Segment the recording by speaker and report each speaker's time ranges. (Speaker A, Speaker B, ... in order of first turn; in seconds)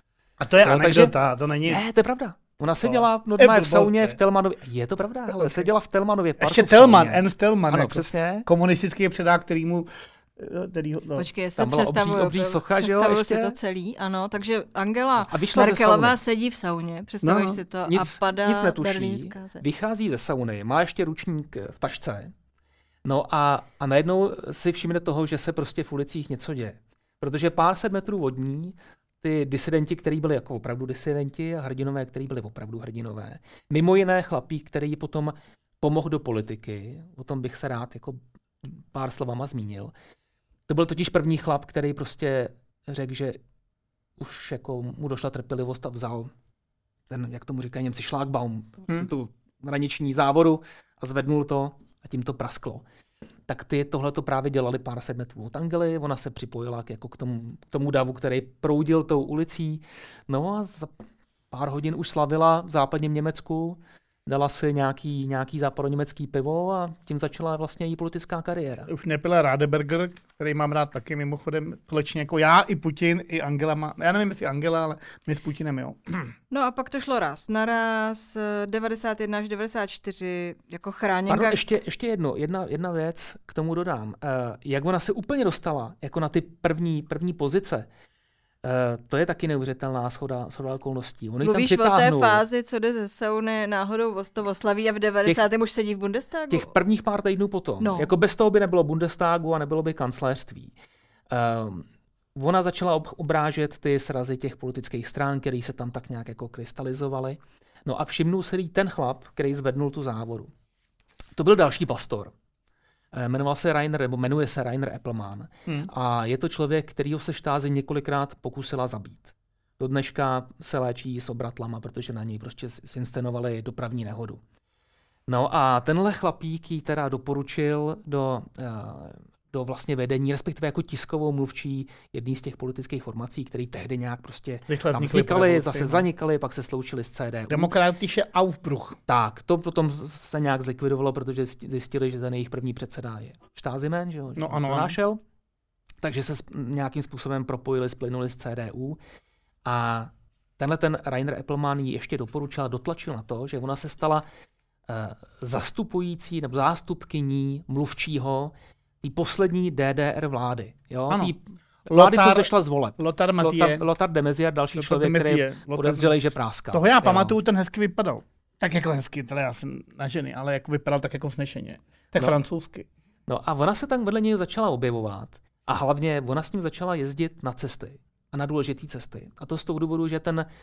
Speaker A: 0.4-1.8, 2.8-4.2, 5.3-5.7, 6.4-11.3, 17.2-17.6, 68.9-76.3, 134.7-136.1, 137.5-139.0, 144.4-145.0, 161.1-161.3, 161.9-163.8, 164.8-166.1, 166.7-172.9
Speaker B: 0.6-8.5, 11.6-13.6, 15.2-16.2, 17.9-22.3, 23.1-39.9, 40.7-43.4, 44.2-46.3, 47.1-52.8, 53.5-60.9, 61.5-68.9, 81.3-87.9, 88.6-92.4, 96.5-100.7, 101.3-110.5, 111.4-112.3, 113.1-124.4, 125.3-137.7, 139.1-145.2, 146.0-149.0, 149.7-154.2, 154.9-167.4, 173.3-180.5
Speaker C: 11.2-19.6, 76.5-81.6, 91.4-96.7, 97.8-98.1